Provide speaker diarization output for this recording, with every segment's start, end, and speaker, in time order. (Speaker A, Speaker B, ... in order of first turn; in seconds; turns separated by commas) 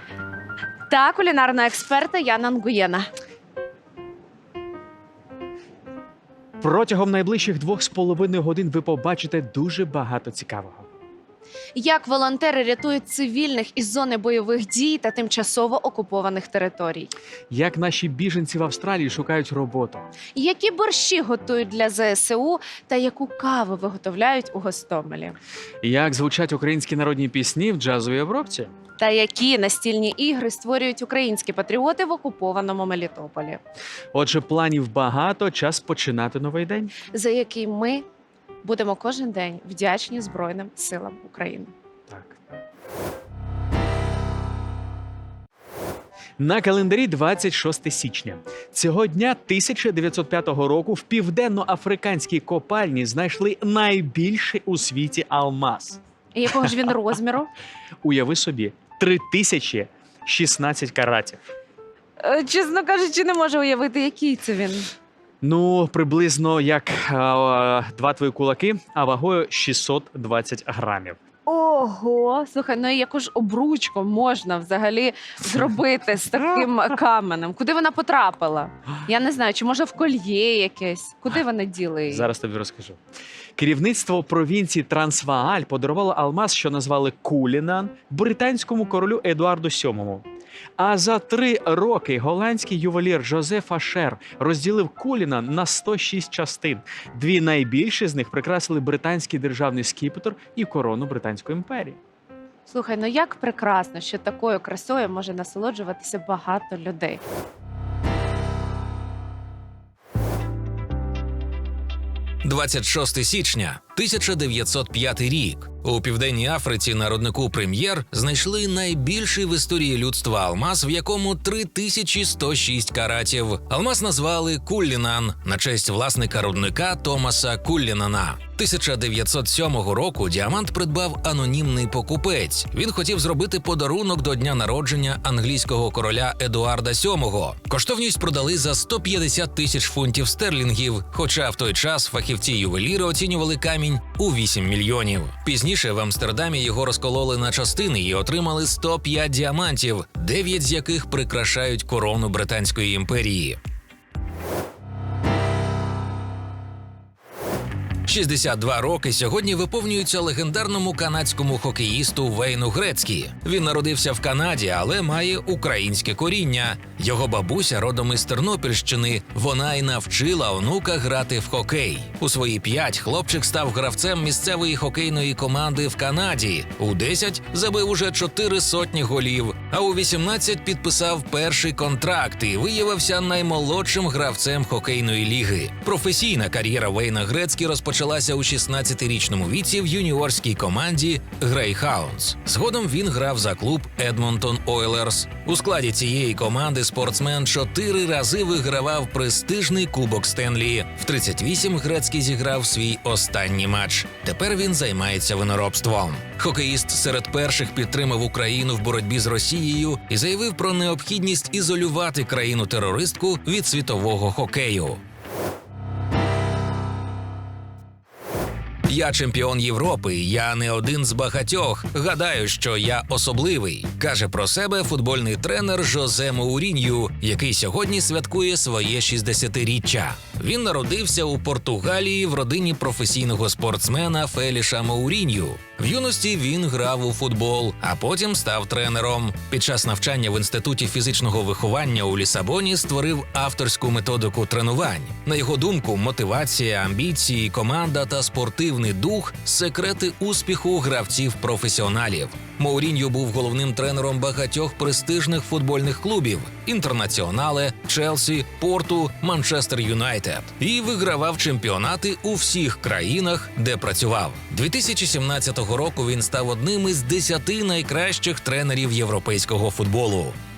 Speaker A: 0.9-3.1, Speaker B: 6.6-10.9, Speaker A: 11.8-17.1, Speaker B: 17.5-20.1, Speaker A: 20.4-25.4, Speaker B: 25.8-28.7, Speaker A: 29.0-33.6, Speaker B: 34.1-36.9, Speaker A: 37.1-38.0, Speaker A: 38.6-41.7, Speaker B: 42.1-42.4, Speaker B: 46.4-56.0, Speaker A: 56.3-57.5, Speaker B: 58.0-61.4, Speaker A: 62.2-64.9, Speaker B: 65.4-71.2, Speaker A: 71.5-82.3, Speaker B: 82.1-83.0, Speaker B: 83.6-90.2, Speaker B: 90.8-102.0, Speaker A: 102.7-107.2, Speaker C: 112.4-153.6, Speaker C: 158.1-215.0, Speaker C: 218.9-270.4